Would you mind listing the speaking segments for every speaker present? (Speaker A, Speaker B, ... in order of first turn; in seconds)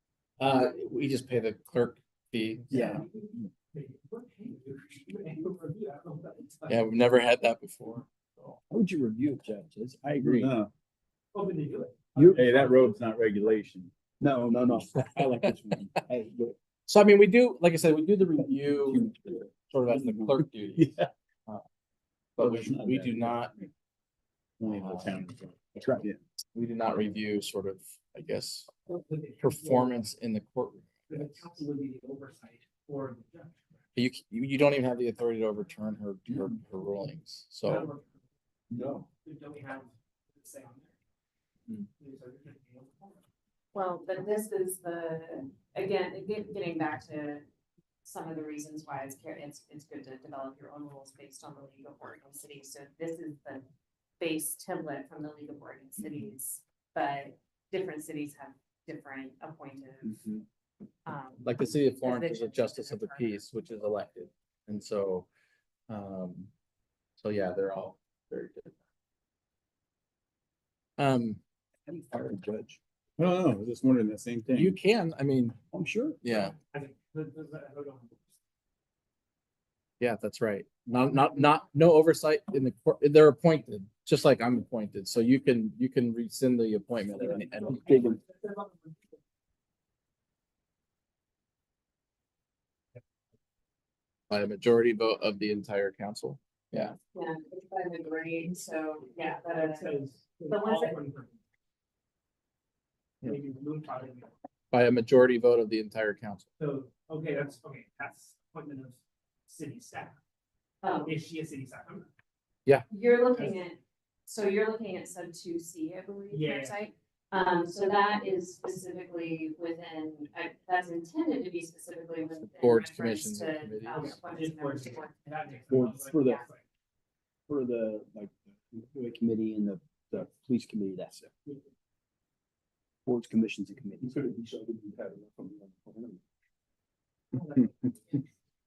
Speaker A: 0.4-3.0, 6.7-8.6, 10.2-10.5, 16.9-19.1, 19.7-20.9, 22.4-23.6, 24.6-25.2, 26.5-28.7, 29.4-31.3, 34.0-37.9, 61.4-65.3, 65.9-66.5, 67.2-68.8, 71.0-71.4, 74.5-75.6, 76.2-76.5, 80.0-88.1, 94.3-97.0, 104.7-106.5, 122.5-124.2
Speaker B: 2.7-3.0, 8.7-10.6, 12.2-16.5, 18.9-21.1, 22.4-23.7, 24.6-26.2, 38.7-39.0, 60.1-60.4, 71.9-72.8, 75.7-76.2, 87.7-88.2, 125.7-126.4, 127.5-131.3, 133.1-134.4
Speaker C: 2.7-6.9, 11.3-13.0, 28.9-30.1, 31.1-33.7, 37.6-38.1, 39.2-40.9, 42.0-43.2, 76.7-78.2, 87.6-88.9, 99.5-101.4, 103.2-104.3, 106.6-110.2, 111.0-112.1, 116.3-116.8, 123.9-126.6, 137.3-138.2
Speaker D: 43.7-47.4, 48.0-53.7, 54.2-60.3, 61.0-63.5, 97.1-99.9, 100.5-101.0, 110.8-111.1, 112.9-126.5
Speaker E: 73.2-74.7, 134.4-136.1